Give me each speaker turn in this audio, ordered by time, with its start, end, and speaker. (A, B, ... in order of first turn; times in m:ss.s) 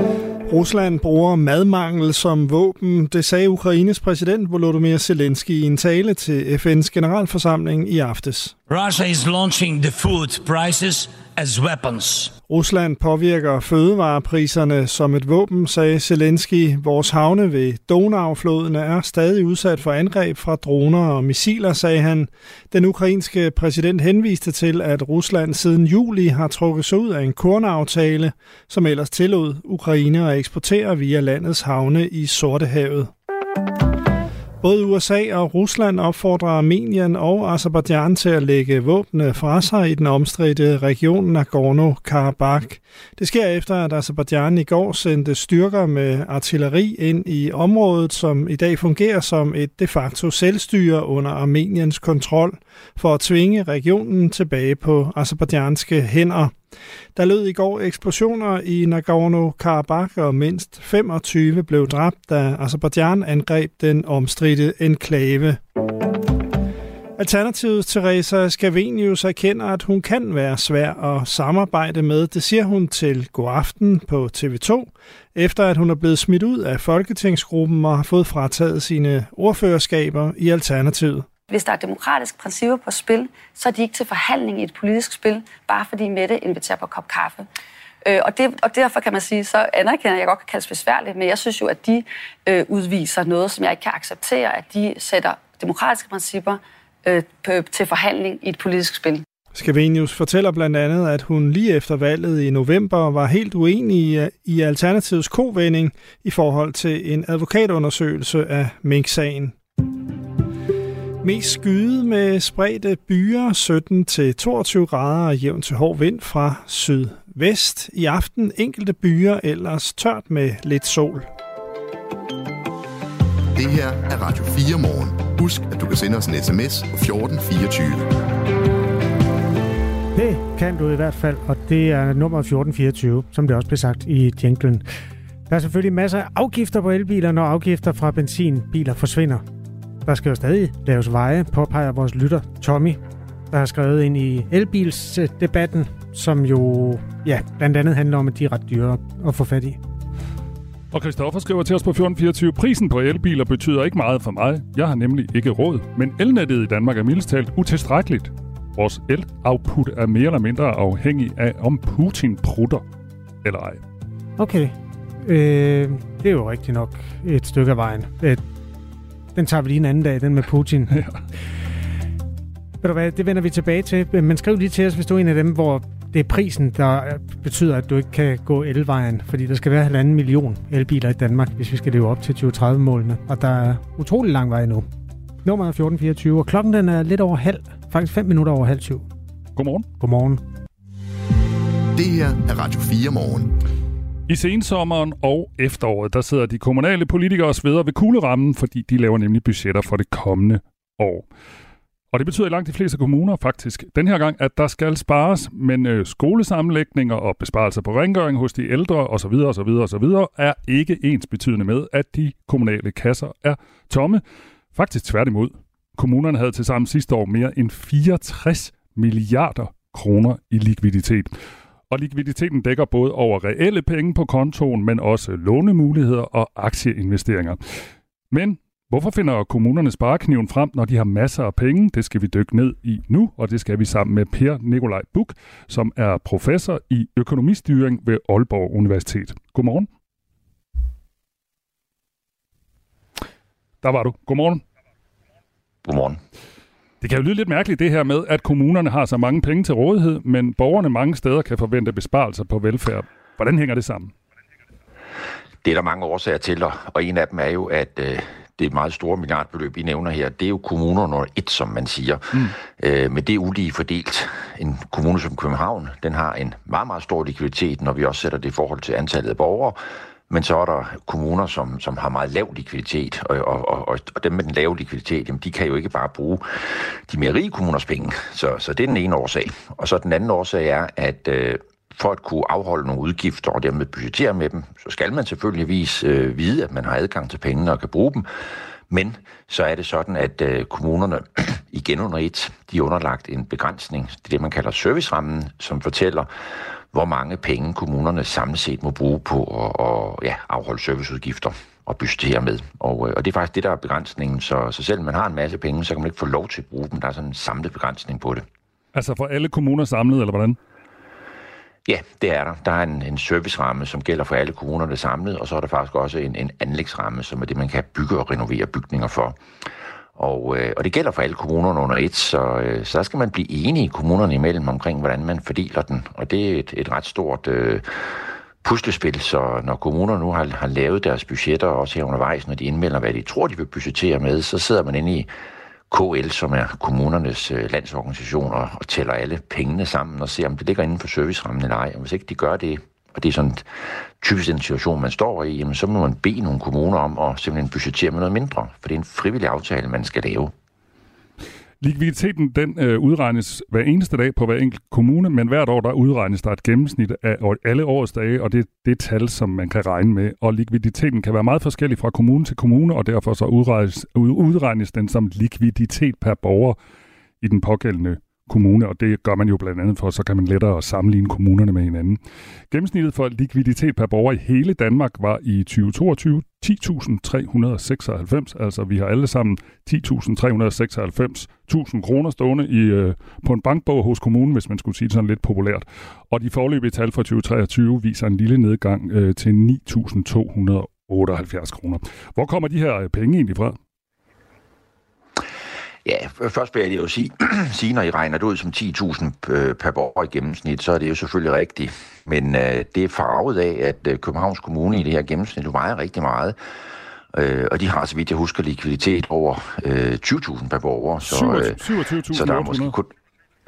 0:00.5-0:08.5 A
0:08.7-0:12.3 B
0:12.5-0:33.1 A
0:34.6-0:56.5 A
0:57.2-1:05.6 A
1:07.2-1:21.2 A
1:21.5-1:27.5 C
1:28.0-1:39.2 C
1:39.5-1:49.6 A
1:51.2-2:01.3 A
2:03.5-2:08.1 D
2:10.1-2:14.8 E
2:15.5-2:19.4 E
2:20.0-2:23.0 E
2:23.5-2:29.8 E
2:30.9-2:42.8 F
2:43.4-2:43.8 F
2:44.4-2:48.4 E
2:49.4-2:51.0 E
2:52.8-3:04.9 E
3:05.4-3:09.0 E
3:09.6-3:09.9 F
3:10.0-3:10.4 E
3:12.0-3:13.5 D
3:14.3-3:21.3 F
3:22.1-3:34.2 F
3:34.7-3:41.3 F
3:41.9-3:47.6 F
3:48.3-3:59.9 F
4:03.8-4:04.6 F
4:05.8-4:06.2 G
4:07.0-4:14.1 F
4:15.6-5:08.4 G
5:08.9-5:10.6 F
5:11.8-5:35.3 G
5:35.9-5:50.5 G
5:51.8-6:06.8 F
6:07.4-6:33.8 F
6:36.0-6:46.6 G
6:47.3-6:53.1 G
6:51.2-6:52.9 F